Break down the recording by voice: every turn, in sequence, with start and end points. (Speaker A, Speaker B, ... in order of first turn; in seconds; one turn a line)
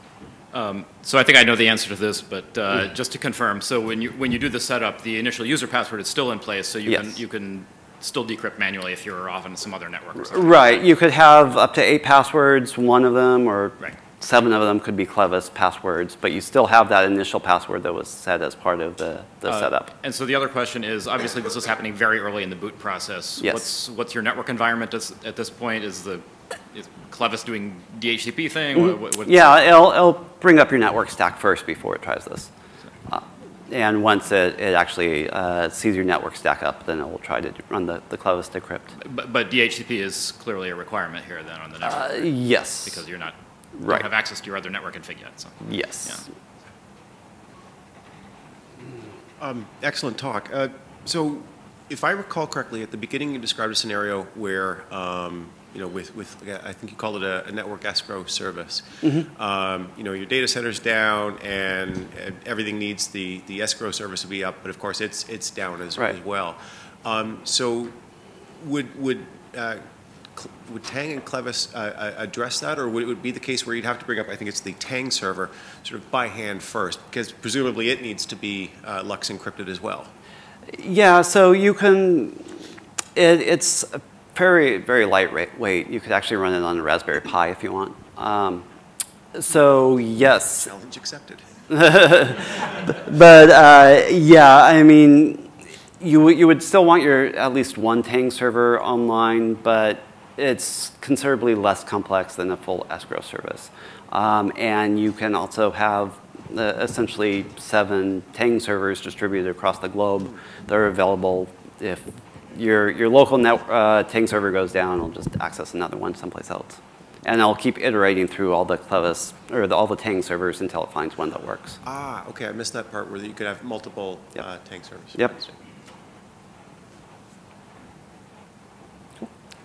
Speaker A: 0.5-10.8
Speaker B: 10.2-19.9
Speaker A: 19.5-29.6
Speaker B: 23.4-23.6
Speaker B: 29.2-32.5
Speaker B: 33.1-38.9
Speaker A: 39.0-42.3
Speaker B: 41.8-43.0
Speaker A: 42.8-46.2
Speaker B: 43.8-44.0
Speaker B: 45.6-46.3
Speaker C: 49.4-67.9
Speaker B: 59.0-59.3
Speaker C: 68.6-69.8
Speaker C: 70.3-80.1
Speaker B: 80.7-82.5
Speaker B: 83.1-88.6
Speaker B: 89.3-90.7
Speaker C: 90.6-91.4
Speaker B: 91.7-95.5
Speaker B: 96.0-121.8
Speaker C: 121.8-125.5